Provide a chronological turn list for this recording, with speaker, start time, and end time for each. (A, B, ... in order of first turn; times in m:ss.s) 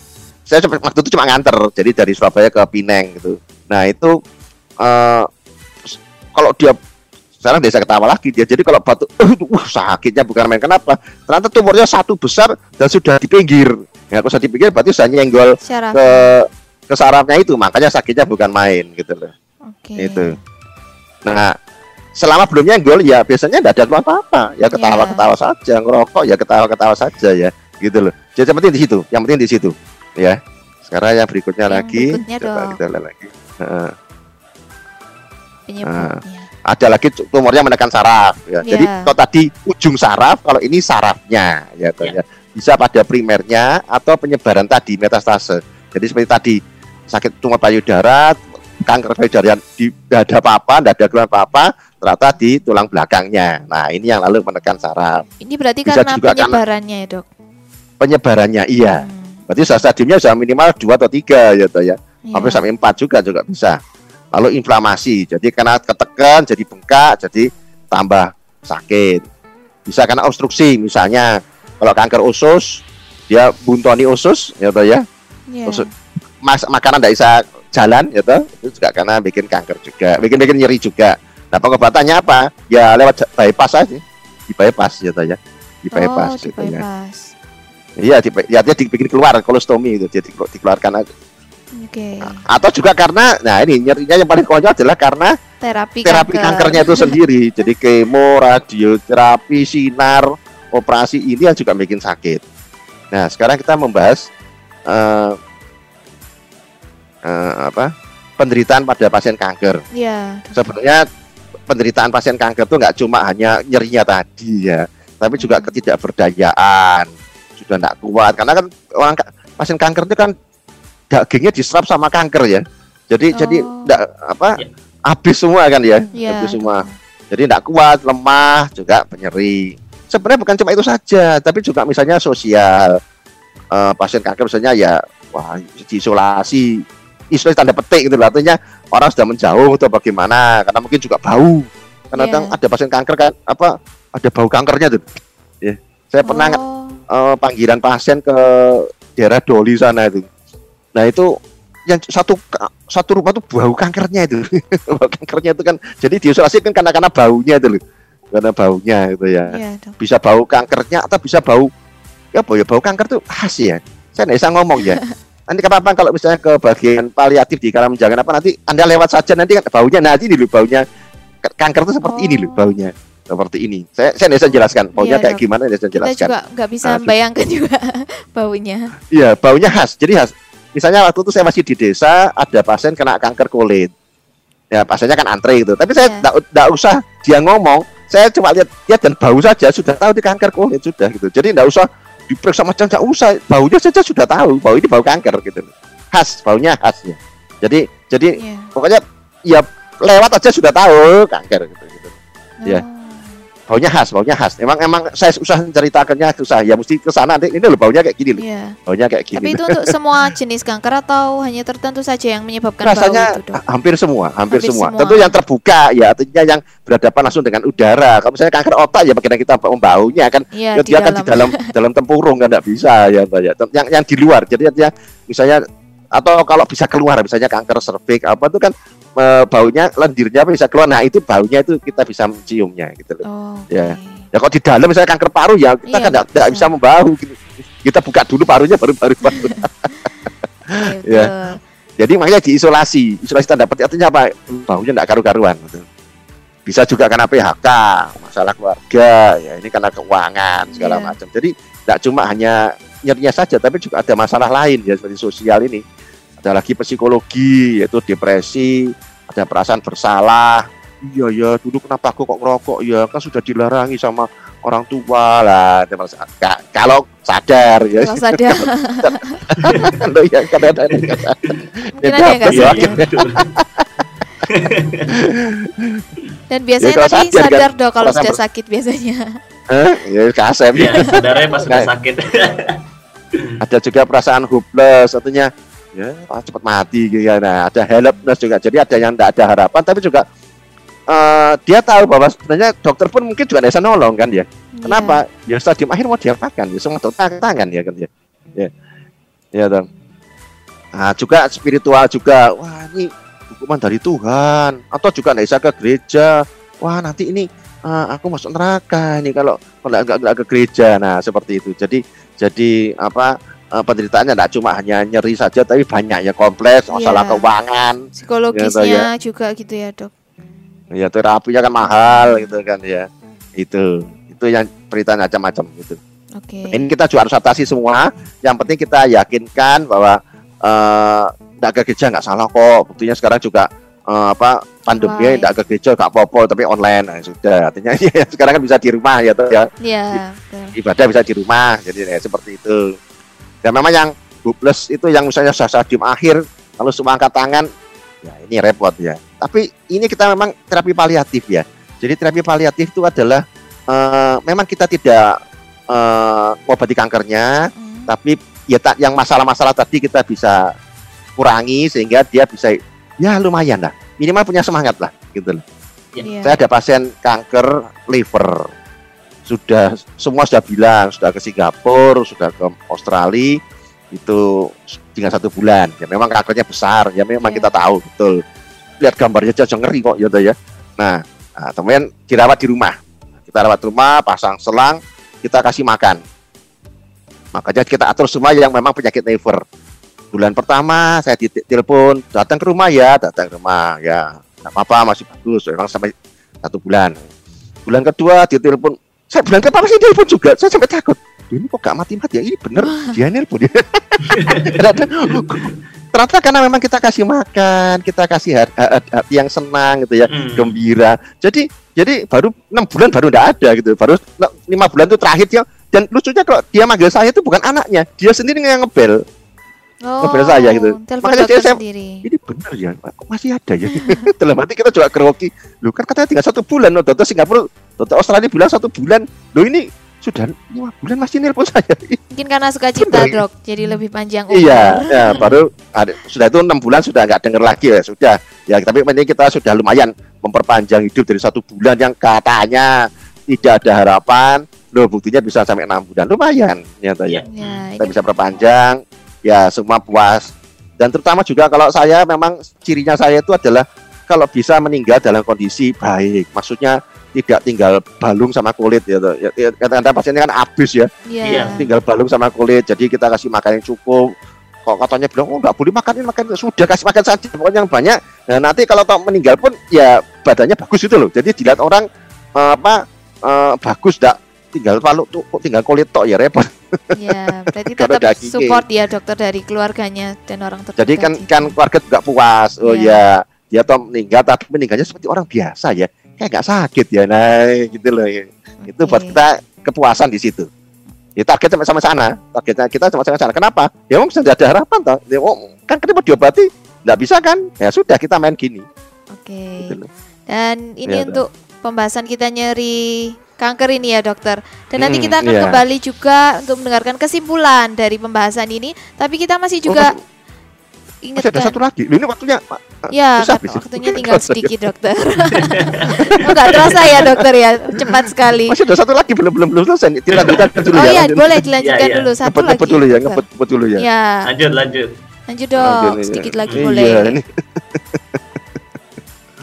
0:00.5-0:04.2 A
0:04.8-0:05.3 A
0:05.8-0:06.8 A
0:07.4-0:19.3 A
0:15.6-0:16.4 B
0:19.7-0:20.4 B
0:20.0-0:20.3 A
0:21.2-0:21.6 A
0:22.2-0:33.9 A
0:24.7-0:25.2 B
0:31.7-0:32.8 B
0:35.7-0:36.5 B
0:35.8-0:55.2 A
0:38.6-0:39.1 B
0:55.4-0:57.3 B
0:55.9-0:56.6 A
0:58.0-1:03.8 A
0:58.9-0:59.4 B
1:02.3-1:02.6 B
1:04.3-1:09.2 A
1:09.9-1:15.0 A
1:15.5-1:15.9 B
1:16.4-1:26.8 A
1:26.0-1:27.3 B
1:28.0-1:31.1 A
1:31.8-1:32.4 B
1:32.2-1:35.3 A
1:35.6-1:37.2 B
1:36.0-1:42.4 A
1:43.1-1:44.3 A
1:44.9-1:45.4 A
1:47.2-1:49.8 A
1:49.9-1:50.7 B
1:50.5-1:51.0 A
1:51.7-2:00.3 A
1:55.4-1:55.7 B
2:01.1-2:13.0 A
2:03.4-2:04.0 B
2:06.2-2:07.0 B
2:13.7-2:16.8 A
2:17.3-2:25.1 A
2:22.1-2:22.6 B
2:25.6-2:30.3 A
2:26.2-2:27.0 B
2:31.0-2:31.3 A
2:31.9-2:37.8 A
2:38.3-2:41.7 A
2:39.5-2:40.0 B
2:42.3-2:50.8 A
2:51.4-2:56.3 A
2:52.0-2:52.8 B
2:55.0-2:55.4 B
2:56.0-2:58.9 B
2:56.8-2:57.1 A
2:59.1-3:03.9 A
3:04.7-3:22.1 A
3:06.0-3:06.3 B
3:18.4-3:18.7 B
3:22.6-3:23.4 B
3:23.7-3:29.9 A
3:28.4-3:28.8 B
3:29.3-3:33.6 B
3:32.8-3:45.6 A
3:34.5-3:35.4 B
3:40.5-3:41.7 B
3:46.1-3:59.7 A
3:53.2-3:54.3 B
3:55.9-3:56.7 B
3:59.3-3:59.6 B
4:00.7-4:01.6 B
4:01.1-4:01.3 A
4:02.0-4:05.8 A
4:06.7-4:15.8 A
4:10.7-4:11.2 B
4:16.4-4:33.9 A
4:28.0-4:29.4 B
4:29.6-4:30.0 C
4:32.0-4:33.0 B
4:32.5-4:33.5 C
4:34.5-4:35.1 C
4:35.1-4:36.0 A
4:36.5-4:39.4 B
4:36.8-4:38.4 A
4:39.7-4:41.9 A
4:40.8-4:42.8 C
4:43.6-4:50.2 A
4:51.1-4:58.7 A
4:54.8-4:55.2 B
4:59.5-4:59.9 A
5:01.0-5:19.1 A
5:16.9-5:17.4 B
5:18.2-5:20.1 B
5:20.9-5:26.0 A
5:21.8-5:22.5 B
5:26.4-5:26.9 B
5:26.7-5:40.2 A
5:34.9-5:35.5 B
5:39.8-5:40.8 B
5:40.8-5:43.0 A
5:43.6-5:47.7 A
5:48.2-5:55.4 A
5:55.9-5:57.5 A
5:57.7-5:58.1 B
5:58.1-6:00.7 A
6:01.4-6:05.6 A
6:06.2-6:06.6 B
6:06.4-6:08.7 A
6:09.4-6:13.6 A
6:14.1-6:18.4 A
6:17.4-6:17.7 B
6:19.0-6:26.2 A
6:27.5-6:29.6 A
6:30.3-6:37.2 A
6:37.9-6:59.2 A
6:42.8-6:43.2 B
6:44.3-6:44.8 C
6:45.3-6:45.7 C
6:50.3-6:50.7 C
7:00.1-7:02.2 B
7:00.2-7:12.2 A
7:12.3-7:15.5 B
7:13.0-7:13.4 A
7:14.5-7:23.0 A
7:23.5-7:27.4 A
7:27.3-7:27.8 C
7:27.5-7:28.6 B
7:28.0-7:44.3 A
7:41.3-7:41.9 B
7:41.4-7:41.8 C
7:44.8-7:52.0 A
7:52.6-7:57.4 A
7:57.1-8:01.8 B
7:58.0-7:58.8 A
8:01.0-8:10.7 A
8:02.8-8:03.2 B
8:08.8-8:09.4 B
8:11.4-8:18.9 A
8:19.4-8:20.0 B
8:19.8-8:20.1 A
8:20.5-8:30.2 B
8:21.1-8:21.4 A
8:25.0-8:25.8 A
8:29.9-8:30.2 A
8:31.2-8:31.8 B
8:31.4-8:34.7 A
8:33.1-8:38.8 B
8:35.6-8:37.0 C
8:36.2-8:37.3 A
8:38.7-8:41.7 A
8:40.3-8:40.9 C
8:40.9-8:43.4 B
8:41.8-8:42.3 C
8:42.4-8:44.0 A
8:44.0-8:44.5 B
8:44.5-8:45.1 C
8:45.5-8:47.4 B
8:45.8-8:47.4 A